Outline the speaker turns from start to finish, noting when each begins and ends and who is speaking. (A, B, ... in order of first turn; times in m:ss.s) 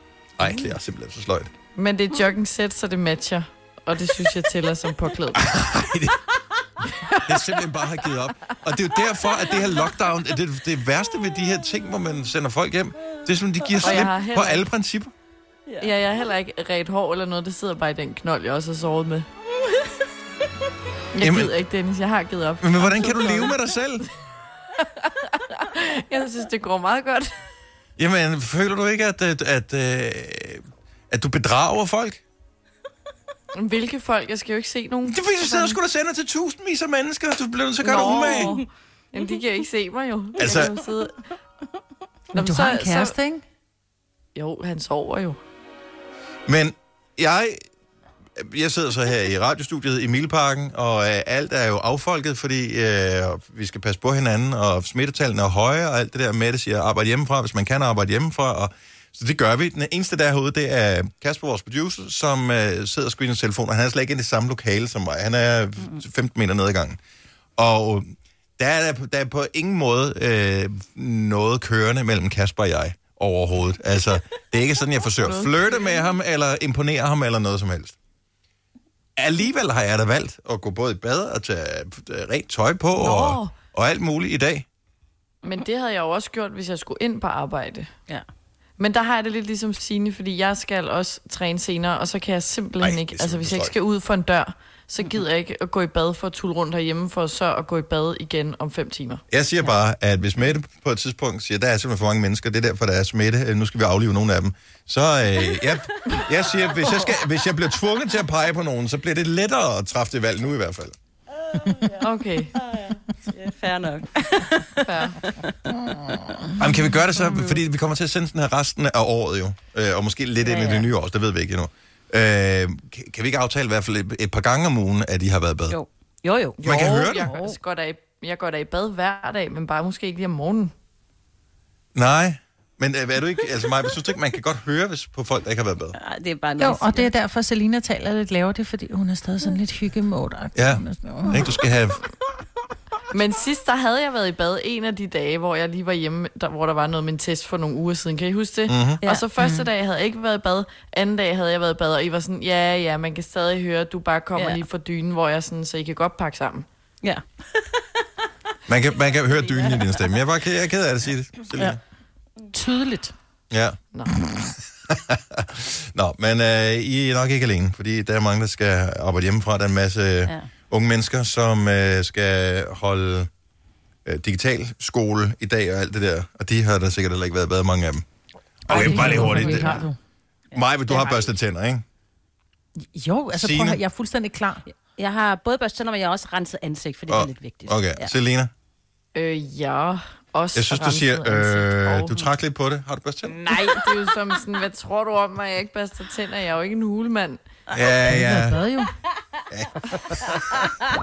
0:00.4-0:01.5 A
0:01.8-0:05.4 B
0:05.4-0:06.2 A
0:07.2-0:15.1 A
0:13.8-0:14.7 B
0:15.8-0:19.2 B
0:21.1-0:23.6 B
0:21.2-0:21.6 A
0:22.6-0:24.1 A
0:24.8-0:27.3 B
0:28.0-0:32.2 A
0:33.5-0:35.8 B
0:35.1-0:38.6 A
0:37.8-0:41.2 B
0:38.1-0:38.6 C
0:40.4-0:40.8 A
0:42.3-0:43.2 B
0:42.3-0:43.4 D
0:44.3-0:45.4 B
0:46.5-0:47.6 A
0:48.4-1:07.0 A
1:07.6-1:08.1 A
1:08.6-1:18.0 A
1:15.2-1:16.0 B
1:19.2-1:24.7 A
1:23.0-1:23.5 B
1:25.4-1:27.9 B
1:28.8-1:39.2 B
1:32.8-1:33.8 A
1:39.3-1:50.9 A
1:51.5-1:55.9 C
1:52.0-1:52.6 B
1:54.9-1:55.2 B
1:56.6-2:05.8 A
2:00.4-2:00.9 C
2:05.7-2:07.6 C
2:06.6-2:10.7 B
2:06.6-2:07.3 A
2:11.9-2:16.0 A
2:16.0-2:17.1 C
2:16.6-2:21.5 D
2:20.6-2:22.0 A
2:23.1-2:36.7 B
2:28.7-2:29.0 A
2:29.0-2:29.7 C
2:34.4-2:34.6 C
2:37.0-2:37.8 C
2:38.7-2:41.8 A
2:39.5-2:40.2 C
2:41.5-2:41.8 C
2:42.5-2:43.1 D
2:43.5-2:43.8 A
2:44.9-2:53.3 A
2:54.1-2:58.0 A
2:58.7-2:59.9 A
2:58.7-3:00.0 D
2:58.8-2:59.7 B
2:58.9-2:59.6 C
3:00.5-3:01.3 C
3:00.5-3:01.8 A
3:02.9-3:04.6 D
3:03.3-3:03.8 A
3:04.7-3:08.1 C
3:07.1-3:08.5 A
3:09.1-3:12.2 B
3:10.6-3:13.4 A
3:13.3-3:17.4 B
3:13.5-3:13.8 C
3:17.7-3:18.7 A
3:18.0-3:18.9 D
3:19.5-3:20.3 A